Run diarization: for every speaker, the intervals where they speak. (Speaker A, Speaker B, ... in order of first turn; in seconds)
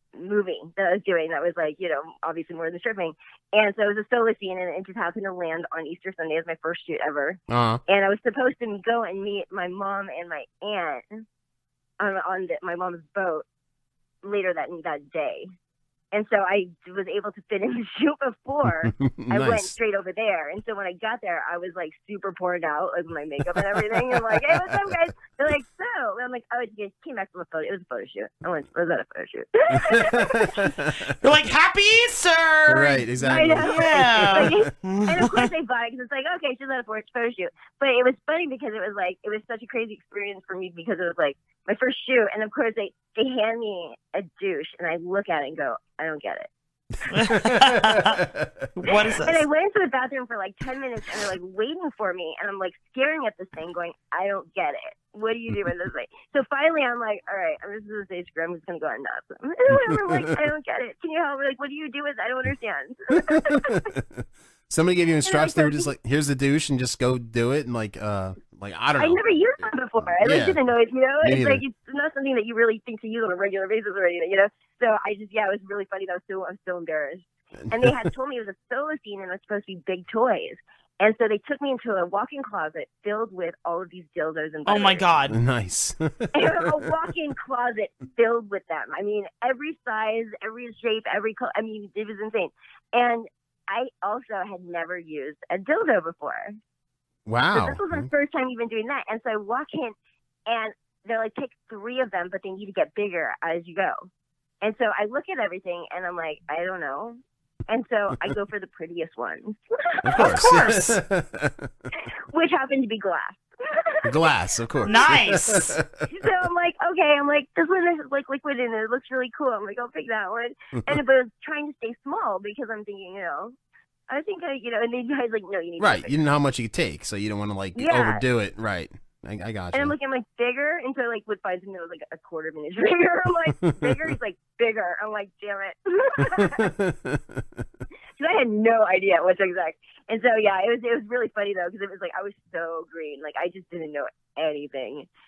Speaker A: 0.2-11.2, 12.0-13.4, 14.2-15.5, 16.1-30.7, 33.2-46.5, 49.2-63.8, 65.2-65.9, 69.0-85.0, 86.3-96.5, 97.5-99.9, 100.5-104.0, 104.6-110.9, 112.3-114.2, 116.1-123.5, 124.1-126.1, 127.7-128.2, 129.7-136.6, 138.2-145.1
Speaker B: 7.5-7.8, 18.6-19.7, 23.5-24.9, 29.8-31.1, 32.7-34.7, 47.3-48.5, 59.7-60.3, 63.3-70.6, 71.2-71.6, 77.7-78.1, 85.3-86.9, 97.2-98.1, 110.0-111.7, 114.0-116.0, 125.8-129.9, 133.7-134.1, 136.3-137.4
Speaker C: 31.2-35.5, 47.1-48.2, 48.8-49.4, 84.7-85.3, 110.2-110.7, 114.8-115.7